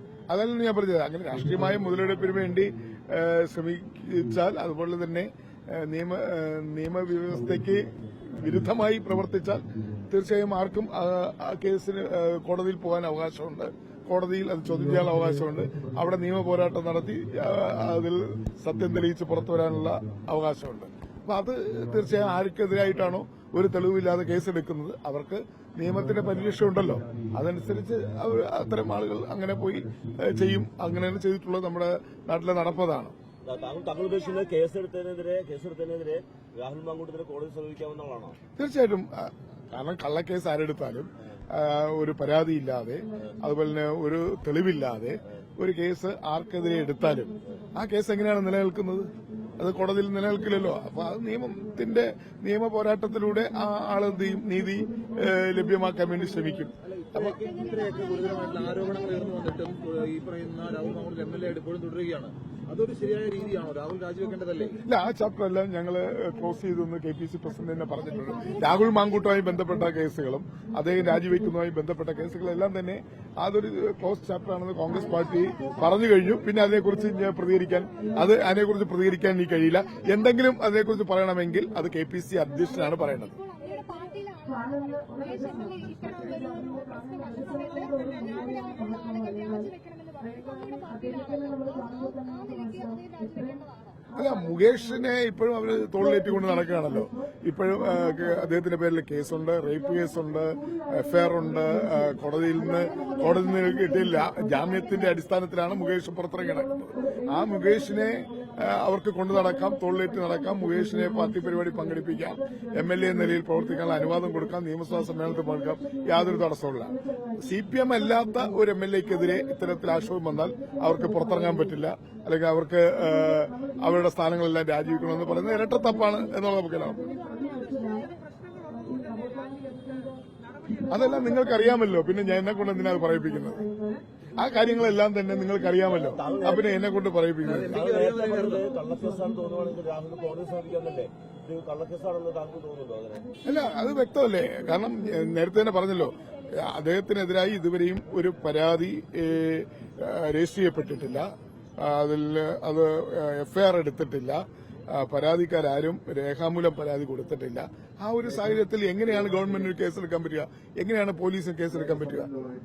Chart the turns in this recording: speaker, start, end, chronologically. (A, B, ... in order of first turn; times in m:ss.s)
0:00.3-0:33.1 A
0:33.4-0:38.4 B
0:38.6-0:57.3 A
0:56.8-1:04.8 C
0:57.4-0:59.5 D
1:04.8-1:23.3 A
1:14.9-1:16.2 D
1:19.4-1:20.4 D
1:22.8-1:34.0 D
1:34.1-2:07.0 A
2:07.0-2:10.2 D
2:10.8-2:13.7 A
2:14.4-2:17.9 A
2:15.9-2:16.8 B
2:17.4-2:18.6 C
2:17.5-2:23.3 B
2:23.4-2:31.3 A
2:26.0-2:26.7 D
2:31.8-2:42.3 A